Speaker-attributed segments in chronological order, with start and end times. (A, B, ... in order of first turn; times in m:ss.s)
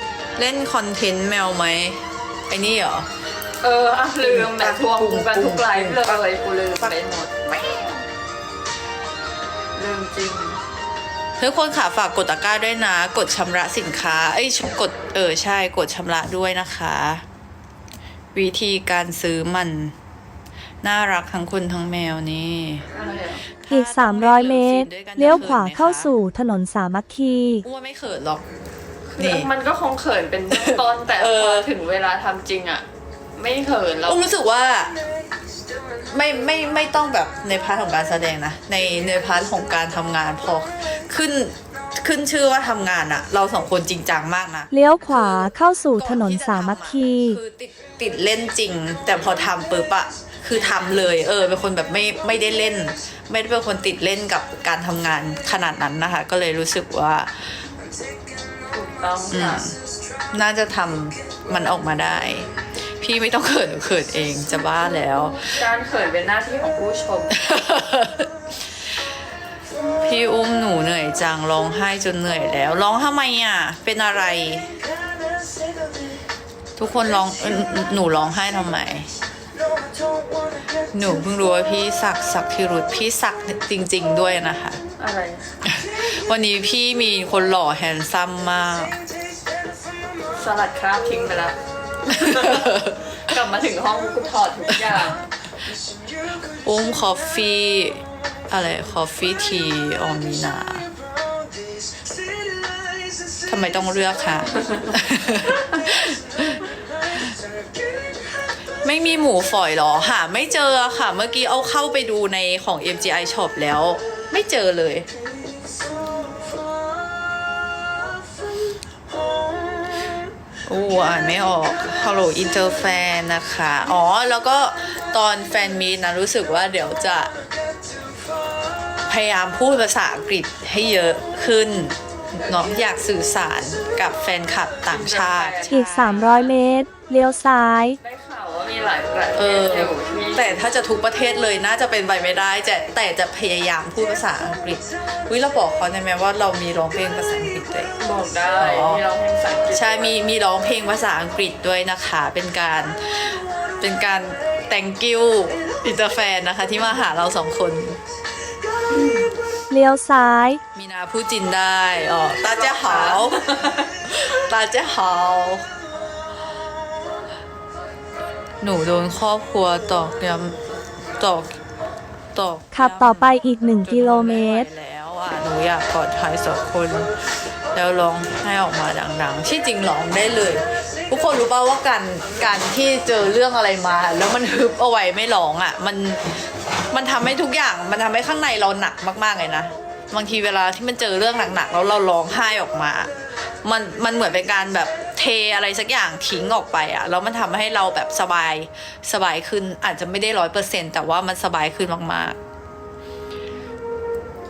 0:00.4-0:03.1 A
0:03.6-0:07.3 B
0:04.2-0:06.2 A
0:06.8-0:08.0 A
0:09.8-0:10.6 B
0:11.4-0:17.2 A
0:18.3-0:19.9 A
0:20.8-0:22.8 A
0:22.9-0:23.4 B
0:23.6-0:26.1 A
0:23.7-0:27.6 C
0:27.6-0:28.4 A
0:29.1-0:32.8 B
0:29.2-0:29.5 A
0:30.5-0:31.7 A
0:33.4-0:34.2 B
0:34.0-0:34.9 A
0:36.1-0:44.7 A
0:44.7-0:47.4 C
0:46.0-0:57.4 A
0:50.6-0:51.0 B
0:58.7-0:59.6 B
0:59.3-0:59.8 A
1:00.3-1:05.6 A
1:05.4-1:07.3 B
1:07.3-1:08.3 A
1:10.0-1:14.8 A
1:16.8-1:19.1 A
1:20.9-1:24.8 A
1:25.0-1:25.5 B
1:25.6-1:29.0 A
1:30.4-1:31.6 B
1:32.1-1:33.0 A
1:32.1-1:35.2 B
1:36.6-1:40.9 A
1:43.5-1:46.6 A
1:48.8-1:55.1 A
2:00.7-2:07.3 A
2:09.1-2:15.8 A
2:14.9-2:16.5 B
2:15.7-2:18.0 C
2:18.0-2:20.7 B
2:19.4-2:27.9 A
2:28.0-2:30.1 B
2:28.6-2:29.0 A
2:29.7-2:38.0 A
2:38.9-2:39.3 B
2:39.7-2:40.6 C
2:40.7-2:43.5 A
2:42.5-2:43.9 B
2:44.1-2:45.6 A
2:48.6-2:50.6 A
2:51.2-2:51.6 A
2:52.3-2:57.2 A
2:52.7-2:54.7 C
2:57.7-3:13.1 A
3:13.6-3:22.4 A